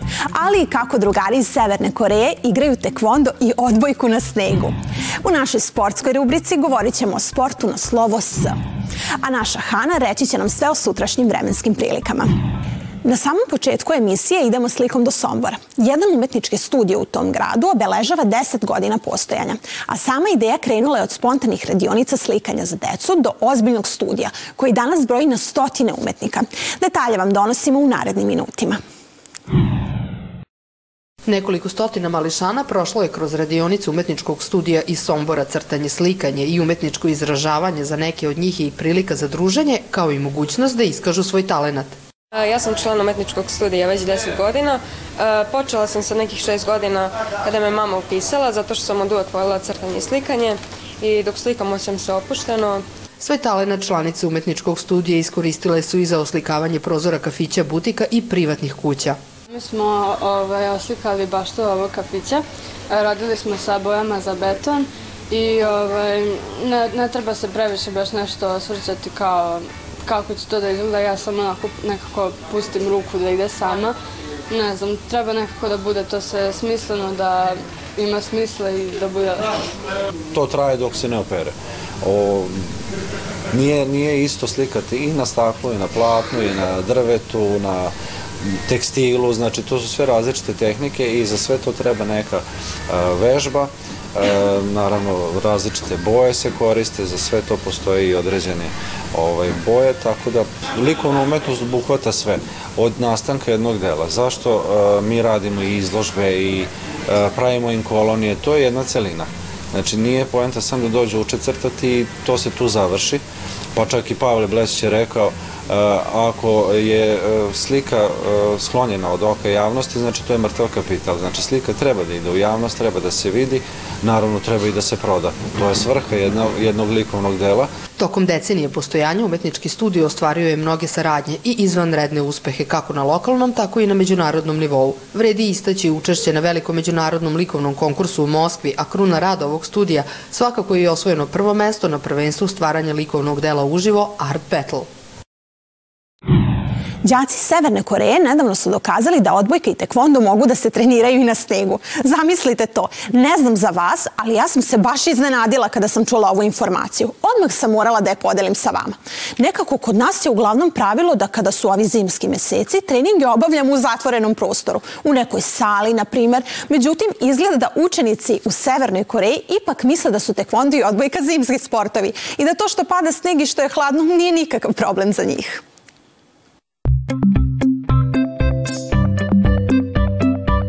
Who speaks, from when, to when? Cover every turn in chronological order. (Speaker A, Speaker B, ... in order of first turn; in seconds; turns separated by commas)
Speaker A: 0.3-8.6, Speaker A: 9.2-12.3, Speaker A: 13.0-28.8, Speaker B: 31.3-41.9, Speaker C: 42.3-52.8, Speaker B: 53.2-59.2, Speaker D: 59.5-74.0, Speaker D: 74.5-79.6, Speaker E: 80.3-82.5, Speaker E: 83.5-87.9, Speaker E: 88.4-113.2, Speaker E: 113.8-127.7, Speaker B: 128.0-144.9, Speaker A: 147.0-175.6